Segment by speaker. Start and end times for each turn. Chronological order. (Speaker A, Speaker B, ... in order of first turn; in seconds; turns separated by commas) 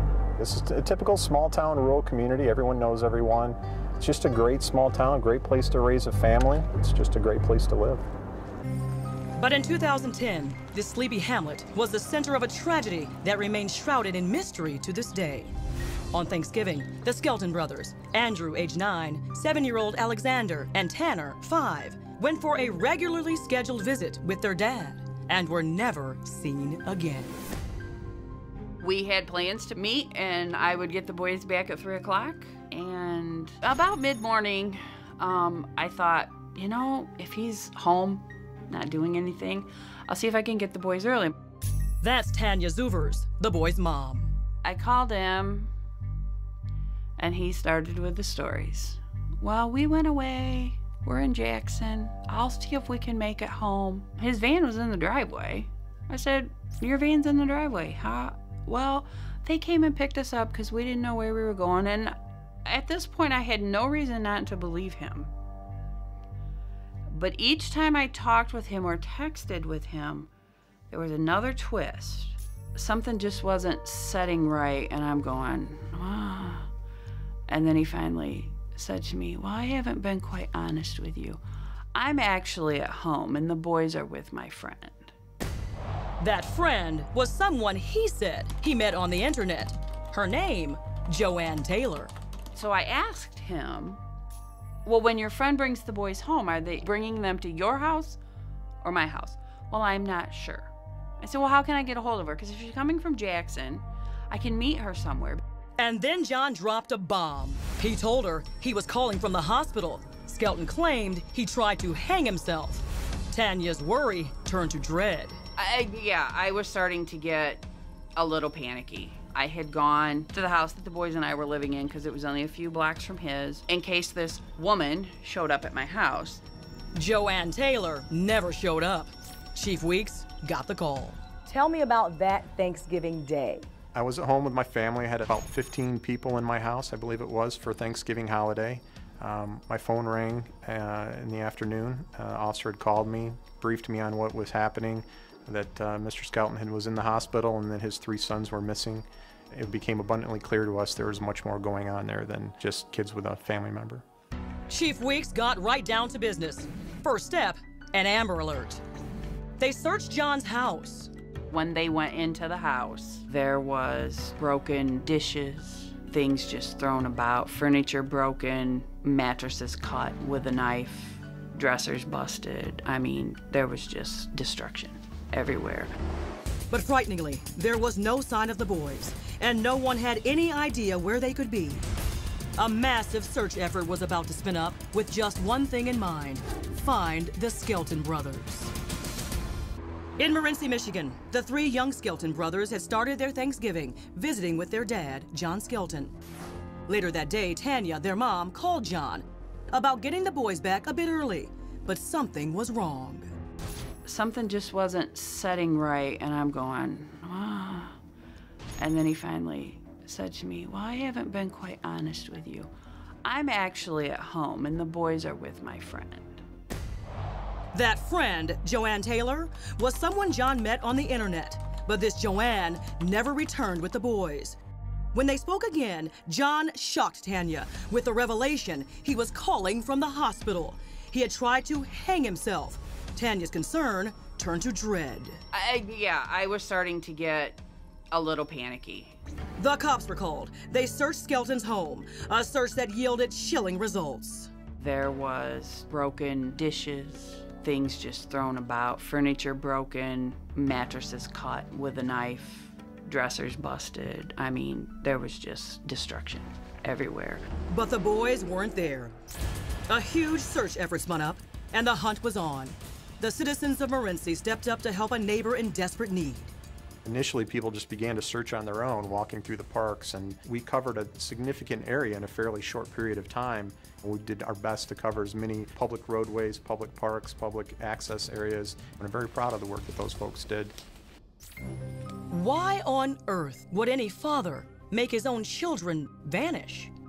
Speaker A: 0.4-8.1, Speaker B: 9.4-15.5, Speaker B: 16.1-27.3, Speaker C: 28.8-41.3, Speaker B: 42.0-44.3, Speaker C: 44.6-45.7, Speaker C: 47.2-65.3, Speaker C: 67.1-70.3, Speaker C: 70.9-76.7, Speaker C: 77.5-81.4, Speaker C: 82.0-85.1, Speaker B: 86.2-92.1, Speaker C: 92.5-94.0, Speaker C: 94.8-98.2, Speaker C: 98.8-105.4, Speaker B: 105.8-115.4, Speaker C: 115.6-126.4, Speaker B: 127.0-131.2, Speaker D: 131.5-133.7, Speaker A: 133.9-154.0, Speaker B: 154.7-158.8, Speaker B: 159.6-161.1, Speaker C: 161.5-175.9, Speaker B: 176.7-181.8, Speaker B: 182.6-188.7, Speaker B: 190.2-196.1, Speaker B: 196.9-203.3, Speaker C: 204.1-208.0, Speaker C: 208.8-212.7, Speaker C: 213.2-216.4, Speaker B: 217.7-224.6, Speaker B: 225.1-235.4, Speaker C: 235.5-237.6, Speaker C: 238.1-239.2, Speaker B: 239.6-244.5, Speaker C: 244.8-257.5, Speaker B: 257.7-259.1, Speaker B: 259.9-266.5, Speaker A: 267.1-280.8, Speaker B: 282.3-286.9